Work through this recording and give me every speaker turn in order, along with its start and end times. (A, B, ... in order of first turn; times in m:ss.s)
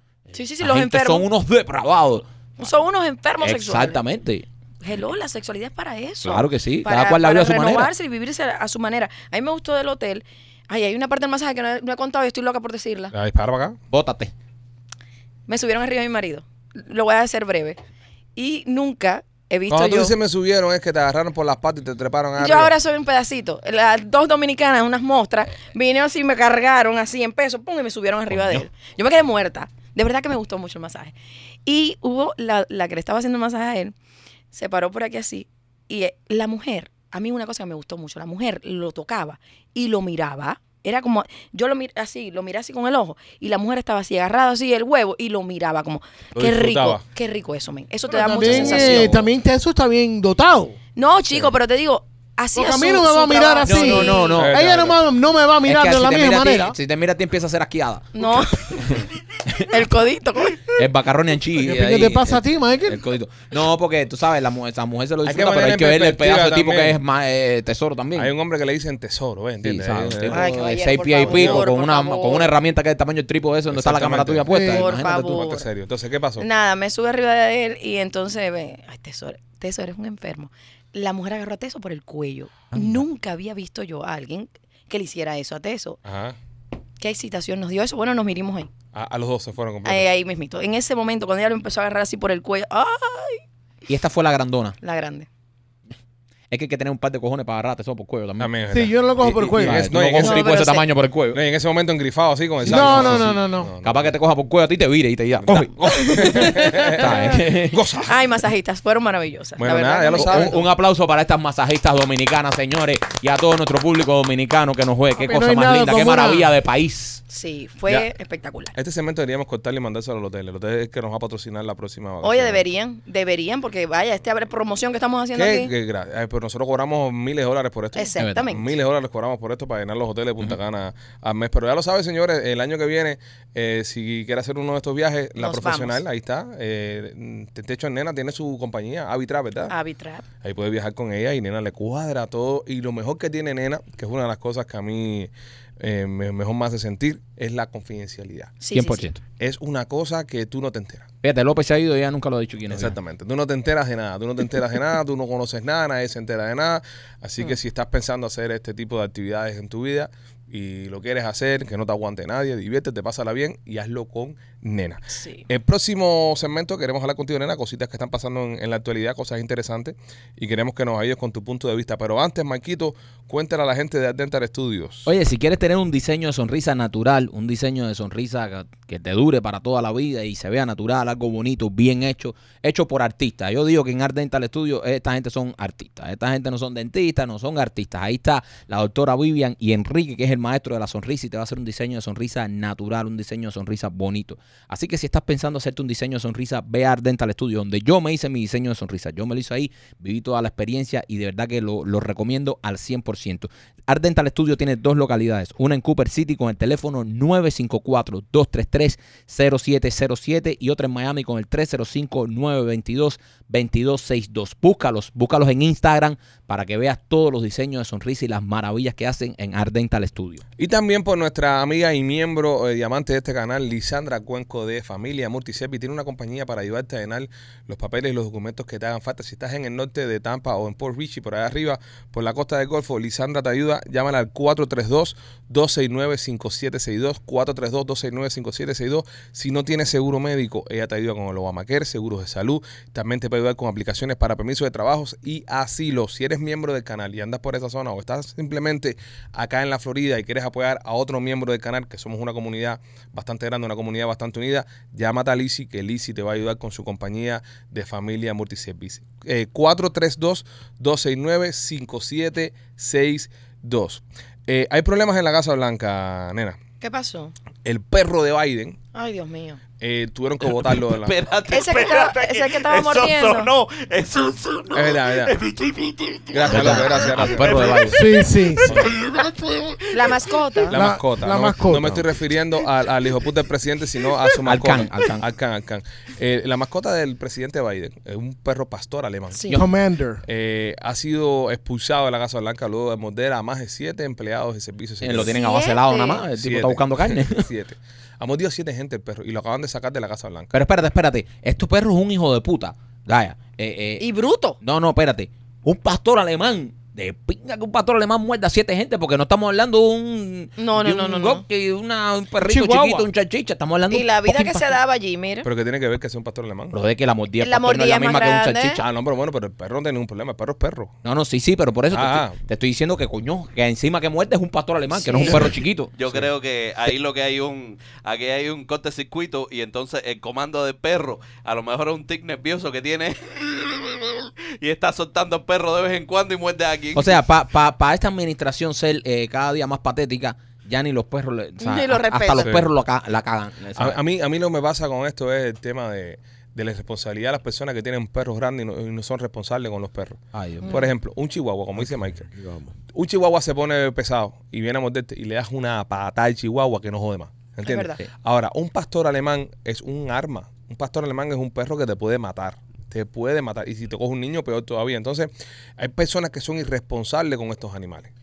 0:00.3-0:01.2 A
0:00.6-0:02.2 B
0:02.6-0:04.0 A
0:03.4-0:04.4 B
0:04.8-0:13.1 A
0:06.2-0:07.9 B
0:13.1-0:13.8 C
0:13.9-0:14.3 B
0:15.5-0:17.8 A
0:18.4-0:20.1 A
0:19.7-0:22.7 C
0:22.4-0:31.1 A
0:31.6-0:33.9 A
0:34.5-0:49.2 A
0:46.3-0:47.0 C
0:48.1-0:50.8 D
0:48.5-0:49.2 C
0:51.0-0:54.4 A
0:52.5-0:56.8 D
0:53.6-0:54.6 B
0:54.4-0:55.0 C
0:55.6-0:58.8 B
0:58.1-0:58.8 A
0:59.7-1:00.7 A
1:00.6-1:08.3 B
1:01.6-1:03.0 D
1:05.2-1:07.0 C
1:08.2-1:10.5 C
1:09.6-1:15.4 B
1:10.3-1:12.5 A
1:11.2-1:11.6 C
1:13.7-1:14.5 C
1:14.5-1:14.8 D
1:14.6-1:15.7 A
1:15.1-1:16.4 C
1:16.4-1:26.0 A
1:22.7-1:23.0 B
1:26.0-1:26.4 C
1:27.0-1:28.7 A
1:28.9-1:30.0 C
1:29.8-1:33.4 A
1:33.9-1:34.8 B
1:34.8-1:35.3 A
1:36.5-1:38.5 B
1:38.4-1:40.5 C
1:38.7-1:39.9 D
1:39.6-1:41.4 B
1:40.2-1:40.9 A
1:41.3-1:44.1 C
1:42.6-1:43.7 D
1:42.7-1:47.8 B
1:45.4-1:48.1 C
1:45.8-1:47.4 A
1:48.0-1:50.6 A
1:49.6-1:50.6 C
1:50.2-1:57.2 B
1:55.2-1:56.5 D
1:57.3-1:58.7 A
1:58.7-2:02.6 C
2:02.2-2:05.7 A
2:05.3-2:19.7 C
2:07.9-2:08.7 A
2:08.2-2:08.5 B
2:15.4-2:16.0 A
2:19.7-2:20.2 A
2:20.4-2:28.5 C
2:28.6-2:29.1 A
2:28.7-2:29.2 B
2:29.4-2:31.1 C
2:31.2-2:32.9 B
2:32.7-2:55.1 C
2:45.1-2:45.4 A
2:55.0-3:40.4 B
3:40.6-4:26.6 C
4:26.8-4:27.3 A
4:27.6-4:28.8 C
4:28.9-4:29.6 A
4:29.8-4:31.2 C
4:30.7-4:36.8 E
4:31.5-4:33.5 A
4:34.7-4:35.4 C
4:36.3-4:38.0 C
4:36.5-4:38.1 B
4:37.5-4:37.8 E
4:37.9-4:38.8 D
4:38.6-4:40.1 E
4:38.6-4:38.9 C
4:39.9-4:40.8 A
4:40.7-4:49.4 C
4:40.7-4:42.1 D
4:44.5-4:45.2 B
4:49.3-4:49.6 A
4:49.5-4:50.2 D
4:50.2-4:55.4 C
4:55.0-4:57.5 B
4:55.3-4:56.2 A
4:56.4-5:00.5 C
5:00.5-5:04.0 B
5:04.0-5:04.6 A
5:04.6-5:14.7 B
5:10.6-5:11.4 A
5:12.4-5:13.1 D
5:13.9-5:15.5 A
5:15.4-5:16.7 C
5:16.7-5:18.8 B
5:17.4-5:18.8 A
5:18.8-5:20.9 C
5:21.0-5:25.9 B
5:21.9-5:22.4 C
5:24.9-5:25.5 A
5:26.0-5:37.2 E
5:36.9-5:44.0 B
5:41.6-5:42.5 A
5:42.4-5:42.7 C
5:43.8-5:52.3 C
5:50.3-5:50.8 B
5:50.6-5:50.9 A
5:52.3-5:52.7 D
5:52.9-6:08.1 C
5:57.6-5:58.0 A